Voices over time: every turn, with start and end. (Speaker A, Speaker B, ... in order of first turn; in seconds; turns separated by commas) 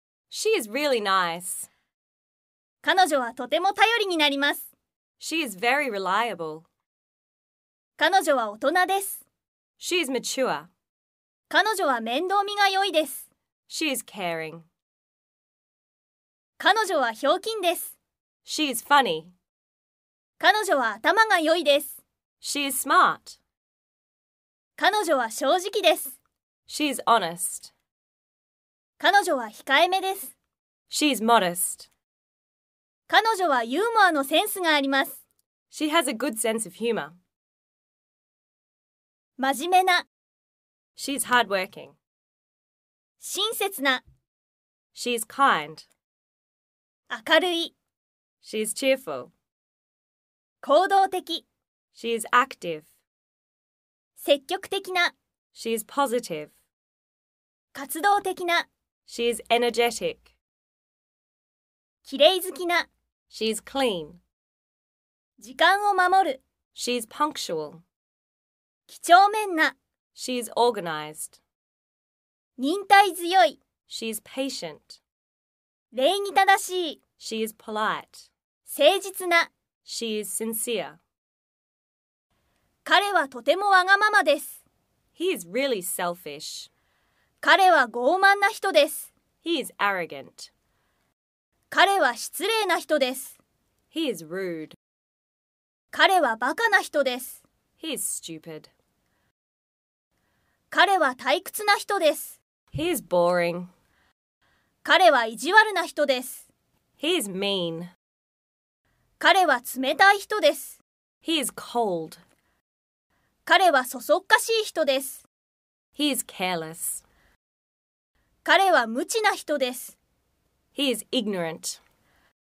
Speaker A: 0.3-1.7, Speaker B: 2.8-4.7, Speaker A: 5.2-6.7, Speaker B: 8.0-9.2, Speaker A: 9.8-10.7, Speaker B: 11.5-13.3, Speaker A: 13.7-14.7, Speaker B: 16.6-17.9, Speaker A: 18.4-19.3, Speaker B: 20.4-22.0, Speaker A: 22.4-23.4, Speaker B: 24.8-26.2, Speaker A: 26.7-27.7, Speaker B: 29.0-30.3, Speaker A: 30.9-31.9, Speaker B: 33.1-35.2, Speaker A: 35.7-37.2, Speaker B: 39.4-40.0, Speaker A: 41.0-41.9, Speaker B: 43.2-44.0, Speaker A: 44.9-45.9, Speaker B: 47.1-47.7, Speaker A: 48.4-49.3, Speaker B: 50.6-51.4, Speaker A: 51.9-52.9, Speaker B: 54.2-55.1, Speaker A: 55.5-56.5, Speaker B: 57.7-58.7, Speaker A: 59.1-60.3, Speaker B: 62.0-62.9, Speaker A: 63.3-64.2, Speaker B: 65.4-66.4, Speaker A: 66.7-67.8, Speaker B: 68.9-69.8, Speaker A: 70.1-71.4, Speaker B: 72.6-73.6, Speaker A: 73.9-75.0, Speaker B: 75.9-77.0, Speaker A: 77.2-78.3, Speaker B: 78.6-79.5, Speaker A: 79.8-81.0, Speaker B: 82.8-84.6, Speaker A: 85.2-86.7, Speaker B: 87.4-89.1, Speaker A: 89.4-90.5, Speaker B: 91.7-93.4, Speaker A: 93.9-94.8, Speaker B: 95.9-97.4, Speaker A: 97.8-98.7, Speaker B: 100.7-102.4, Speaker A: 102.7-103.7, Speaker B: 104.8-106.5, Speaker A: 107.0-107.9, Speaker B: 109.2-110.8, Speaker A: 111.2-112.2, Speaker B: 113.5-115.2, Speaker A: 116.0-117.0, Speaker B: 118.4-120.0, Speaker A: 120.7-121.8